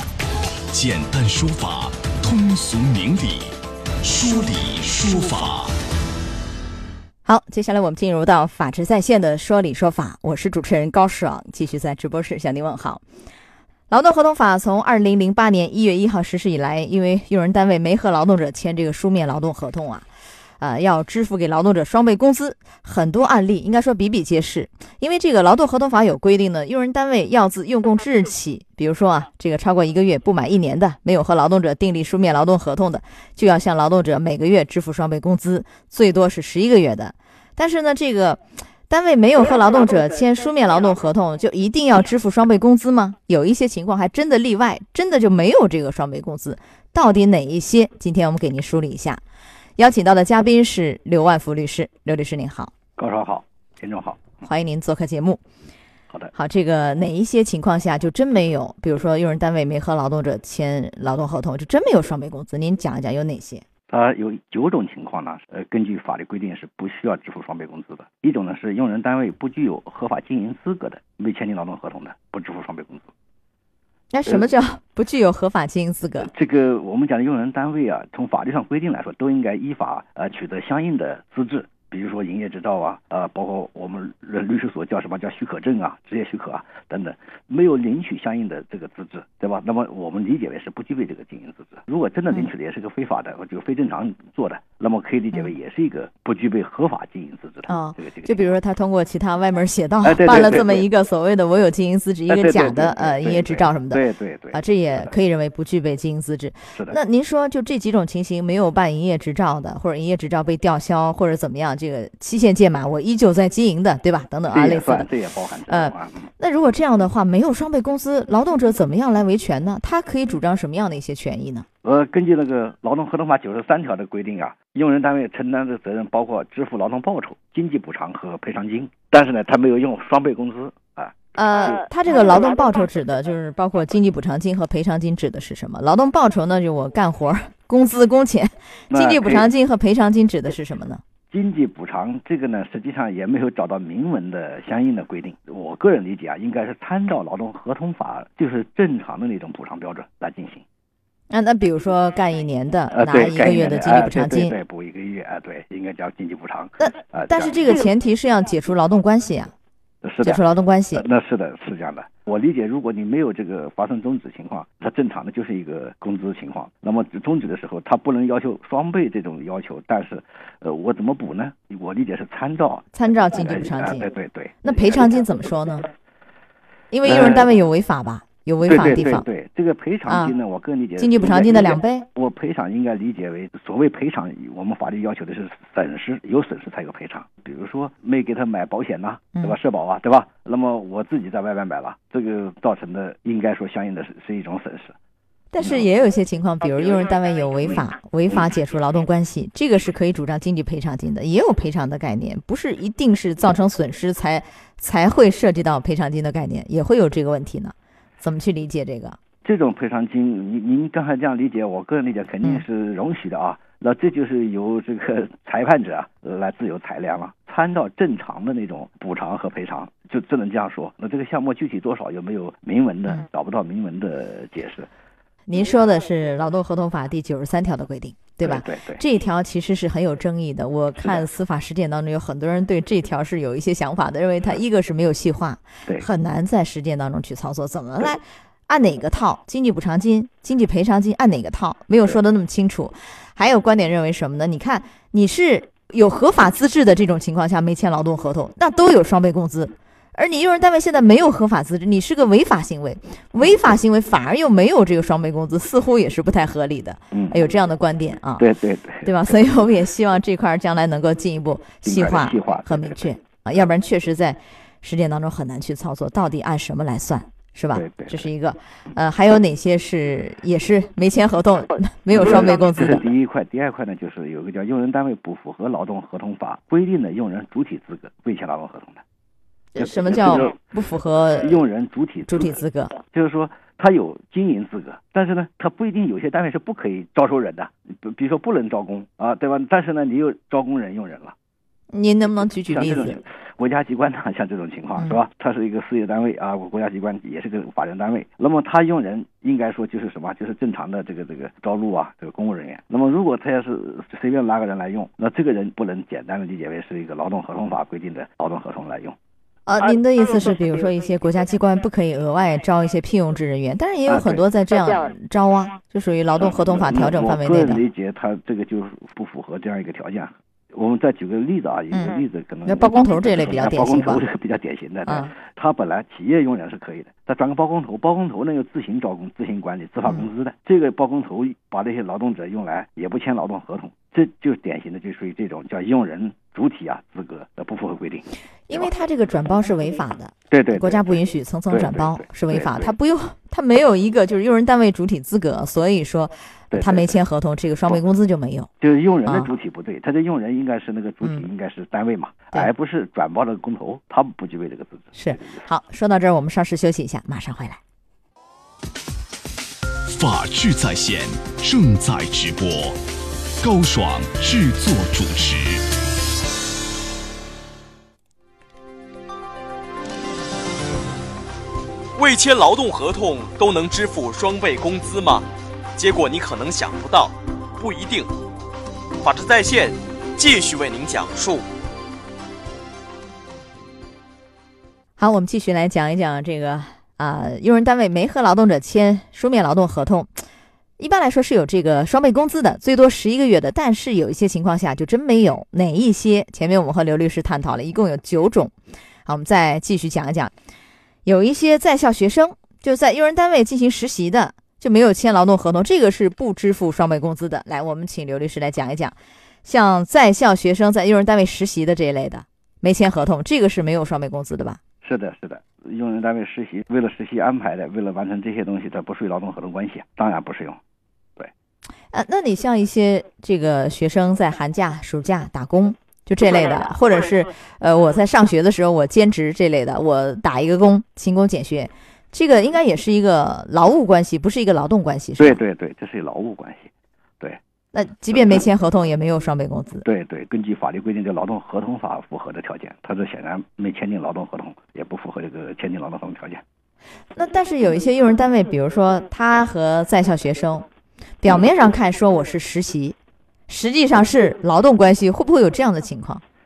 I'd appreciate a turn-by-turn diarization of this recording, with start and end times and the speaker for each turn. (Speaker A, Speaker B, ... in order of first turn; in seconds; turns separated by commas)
Speaker A: 0.7-5.8, Speaker B: 7.2-13.0, Speaker B: 13.9-20.1, Speaker B: 20.6-49.2, Speaker B: 49.8-52.7, Speaker C: 53.0-54.4, Speaker B: 54.4-55.4, Speaker B: 56.3-63.6, Speaker C: 63.9-73.1, Speaker B: 74.1-76.3, Speaker C: 76.2-98.6, Speaker B: 97.7-115.1, Speaker C: 100.0-100.9, Speaker C: 102.3-105.1, Speaker C: 114.5-116.3, Speaker B: 115.7-121.7, Speaker C: 121.8-131.1, Speaker B: 131.3-141.0, Speaker C: 138.9-139.5, Speaker C: 141.3-150.6, Speaker B: 151.3-154.6, Speaker C: 152.9-157.8, Speaker B: 156.8-159.5, Speaker C: 160.0-160.4, Speaker B: 160.2-161.0, Speaker C: 160.9-174.9, Speaker B: 172.9-174.0, Speaker B: 174.6-175.9, Speaker B: 176.9-179.2, Speaker C: 177.0-177.5, Speaker C: 178.6-194.9, Speaker B: 180.1-180.3, Speaker B: 181.0-182.1, Speaker B: 189.3-189.6, Speaker B: 195.5-209.2, Speaker C: 195.6-195.8, Speaker C: 197.8-198.5, Speaker C: 209.4-224.9, Speaker B: 225.5-258.5, Speaker C: 228.4-229.0, Speaker C: 231.0-231.2, Speaker C: 257.1-257.4, Speaker C: 258.4-259.1, Speaker B: 259.0-273.0, Speaker C: 261.8-263.1, Speaker C: 267.7-268.3, Speaker C: 272.1-279.0, Speaker B: 279.7-281.6, Speaker C: 279.8-280.6, Speaker C: 281.4-282.6, Speaker B: 282.3-283.0, Speaker C: 283.1-291.4, Speaker B: 291.9-293.2, Speaker C: 292.7-309.2, Speaker B: 309.7-317.8, Speaker C: 314.1-314.4, Speaker C: 316.4-338.9, Speaker B: 322.6-324.2, Speaker B: 325.1-325.3, Speaker B: 338.7-348.7, Speaker C: 340.5-342.9, Speaker C: 346.7-347.2, Speaker C: 348.8-355.6, Speaker B: 355.1-357.8, Speaker A: 360.1-363.0, Speaker A: 363.6-365.8, Speaker D: 372.2-378.3, Speaker D: 379.2-381.7, Speaker B: 385.2-390.4, Speaker B: 391.0-398.7, Speaker B: 399.2-400.5, Speaker B: 401.2-414.8, Speaker C: 415.0-420.8, Speaker B: 422.1-435.6, Speaker C: 435.4-437.6, Speaker B: 437.9-440.1, Speaker C: 438.3-438.6, Speaker C: 440.0-446.6, Speaker B: 447.4-450.9, Speaker B: 451.4-453.2, Speaker B: 453.7-456.4